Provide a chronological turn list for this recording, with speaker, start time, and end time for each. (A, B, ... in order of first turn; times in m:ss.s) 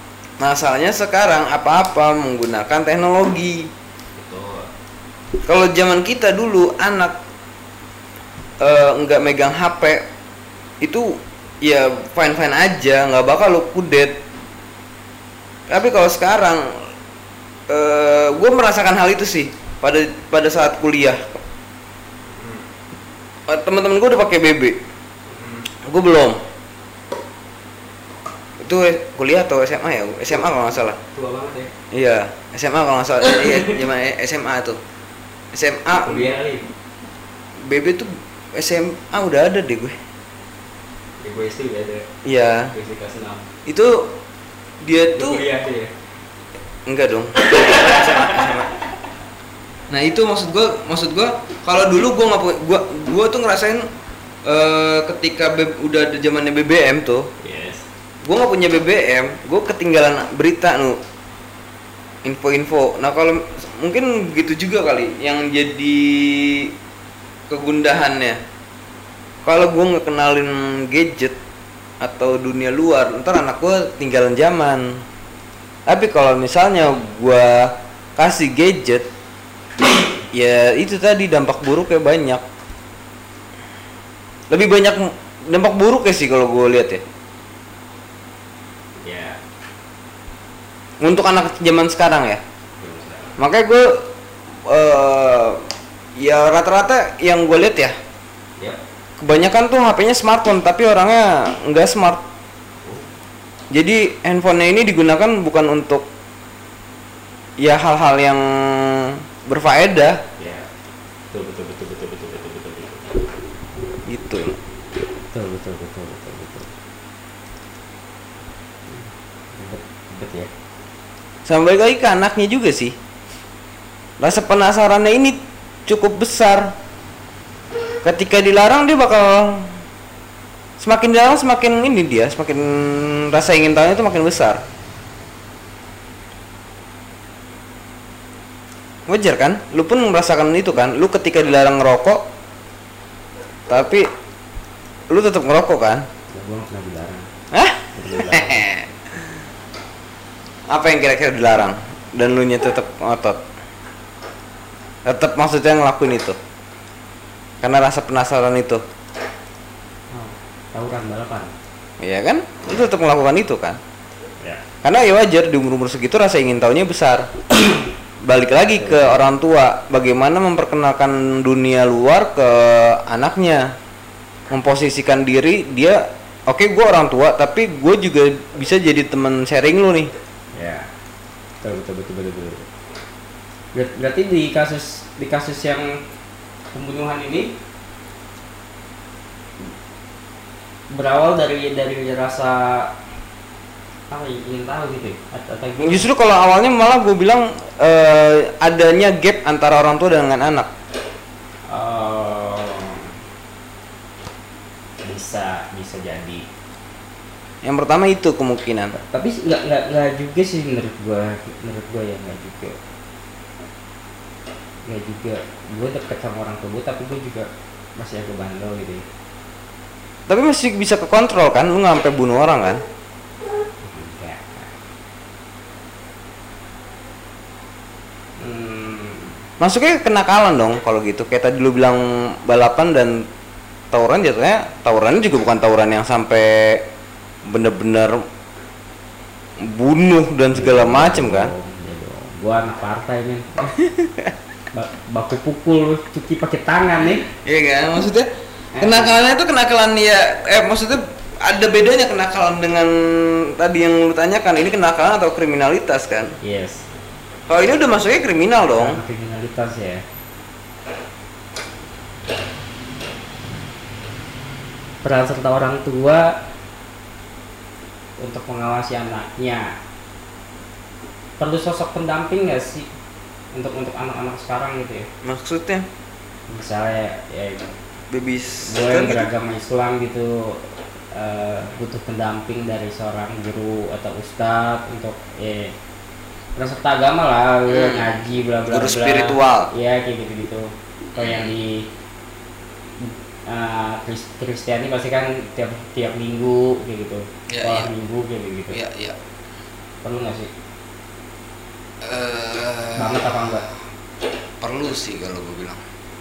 0:00.4-0:03.7 A
0:04.2-0:04.7 B
0:05.4-0:07.2 A
0:08.6-0:10.1 A
0:10.8-0:14.2 A
0:15.7-0:16.7 A
0:17.7-0:21.4 A
0:22.4-0:22.6 B
0:23.5-0:24.8 A
0:25.3-0:25.6 B
0:25.8-0:26.4 A
0:28.6-0:31.0 A
0:31.0-0:31.7 B
0:31.9-0:34.8 A
0:33.2-0:33.7 B
0:35.5-0:36.3 A
0:36.0-0:36.7 B
0:37.6-0:40.0 A
0:41.2-0:42.1 B
0:42.2-0:42.7 A
0:42.7-0:43.5 B
0:43.7-0:44.2 A
0:44.8-0:45.4 A
0:45.1-0:45.9 B
0:46.9-0:48.4 A
0:47.4-0:48.8 B
0:49.9-0:53.9 A
0:54.4-0:57.3 A
0:57.4-0:57.8 B
0:58.2-1:01.0 A
1:02.2-1:06.7 A
1:07.5-1:08.4 A
1:09.4-1:11.4 A
1:12.0-1:15.0 A
1:15.9-1:19.1 A
1:20.3-1:22.4 A
1:24.5-1:27.0 A
1:29.0-1:29.4 B
1:31.0-1:32.4 A
1:32.8-1:33.4 B
1:33.4-1:34.0 A
1:34.7-1:35.6 A
1:36.2-1:38.0 A
1:39.2-1:42.2 A
1:43.7-1:46.1 A
1:47.6-1:50.2 A
1:50.4-1:50.7 B
1:51.3-1:53.4 B
1:54.1-1:54.6 A
1:55.3-1:56.7 B
1:58.9-2:00.5 B
2:01.5-2:03.0 A
2:04.2-2:06.8 A
2:08.0-2:09.8 A
2:10.8-2:14.6 A
2:19.1-2:22.2 A
2:23.7-2:24.1 A
2:25.1-2:26.1 A
2:26.3-2:27.3 B
2:27.5-2:28.9 A
2:27.9-2:28.7 B
2:30.7-2:33.4 A
2:35.0-2:36.4 A
2:37.6-2:38.8 A
2:40.1-2:41.5 B
2:42.0-2:43.8 A
2:44.8-2:53.7 A
2:48.6-2:49.2 B
2:54.5-3:00.1 A
3:00.5-3:00.9 B
3:01.6-3:02.7 B
3:03.7-3:06.0 B
3:06.7-3:07.5 B
3:10.9-3:12.9 B
3:14.1-3:16.1 B
3:15.8-3:20.7 A
3:21.7-3:23.1 B
3:25.0-3:26.4 B
3:27.6-3:28.9 A
3:28.9-3:32.8 B
3:34.9-3:39.0 B
3:40.3-3:42.8 A
3:43.8-3:44.7 B
3:48.4-3:49.4 B
3:49.6-3:53.3 A
3:53.9-3:56.8 A
3:57.5-3:58.2 A
3:59.6-4:01.5 A
4:00.5-4:03.8 B
4:03.9-4:04.3 A
4:04.7-4:07.3 B
4:07.4-4:08.3 A
4:08.8-4:09.2 B
4:08.8-4:16.4 A
4:16.4-4:16.8 B
4:17.5-4:19.0 A
4:18.6-4:20.0 B
4:25.0-4:26.3 B
4:28.2-4:29.7 B
4:31.4-4:32.9 B
4:33.5-4:35.1 B
4:35.2-4:35.9 A
4:36.5-4:37.7 B
4:38.1-4:39.3 A
4:38.6-4:40.6 B
4:41.1-4:45.7 B
4:46.6-4:51.9 B
4:47.7-4:49.7 A
4:51.2-4:51.5 A
4:53.0-4:58.8 B
4:57.5-4:57.9 A
4:58.7-4:59.2 A
5:00.0-5:00.5 B
5:02.0-5:03.5 A
5:03.0-5:03.7 B
5:04.6-5:05.8 A